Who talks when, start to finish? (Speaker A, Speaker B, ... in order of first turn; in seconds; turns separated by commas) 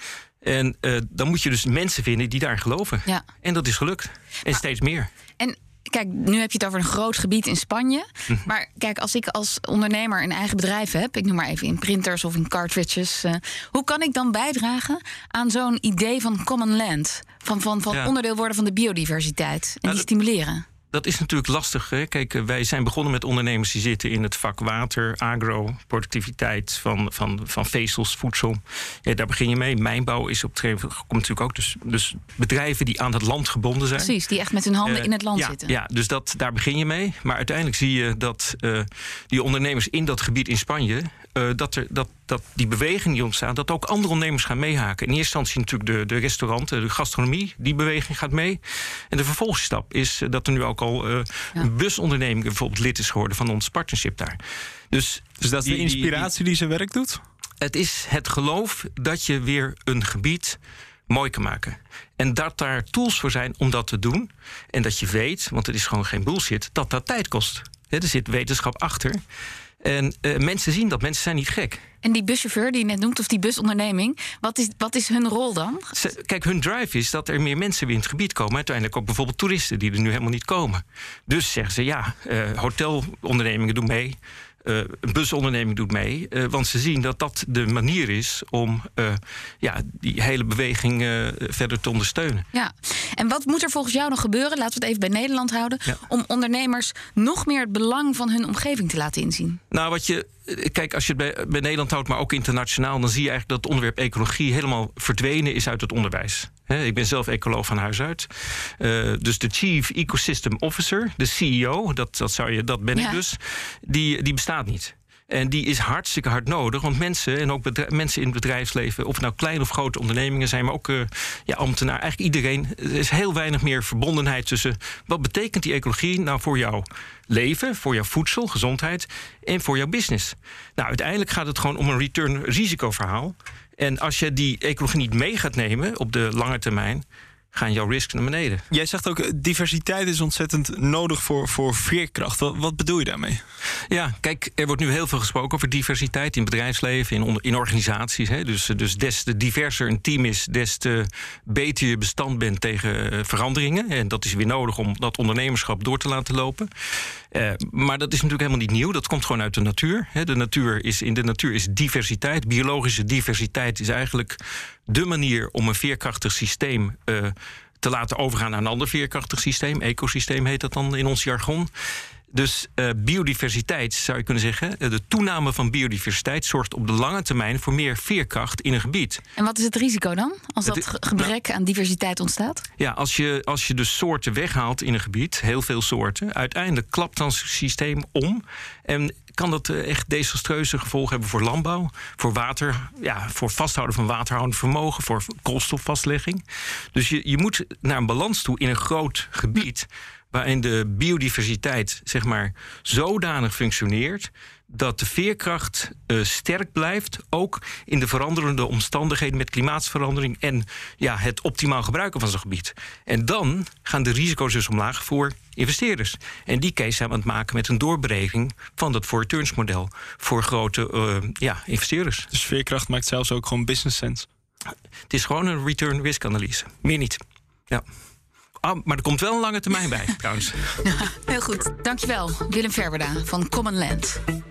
Speaker A: 0.4-5.1, Speaker B: 5.4-20.6, Speaker A: 20.9-34.1, Speaker B: 34.0-35.7, Speaker A: 34.8-54.4, Speaker A: 54.9-56.3, Speaker C: 55.4-57.2, Speaker A: 57.6-60.6, Speaker A: 61.1-69.2, Speaker A: 69.8-71.8, Speaker B: 72.0-75.9, Speaker A: 75.9-92.5, Speaker B: 92.5-99.6, Speaker A: 99.7-138.6, Speaker C: 138.7-143.4, Speaker A: 143.9-156.7, Speaker A: 157.3-171.7, Speaker A: 172.3-179.2, Speaker B: 179.4-182.6, Speaker A: 180.7-181.3, Speaker A: 182.8-222.3, Speaker C: 222.3-224.3, Speaker A: 225.1-227.2, Speaker A: 228.6-230.8, Speaker B: 230.8-234.2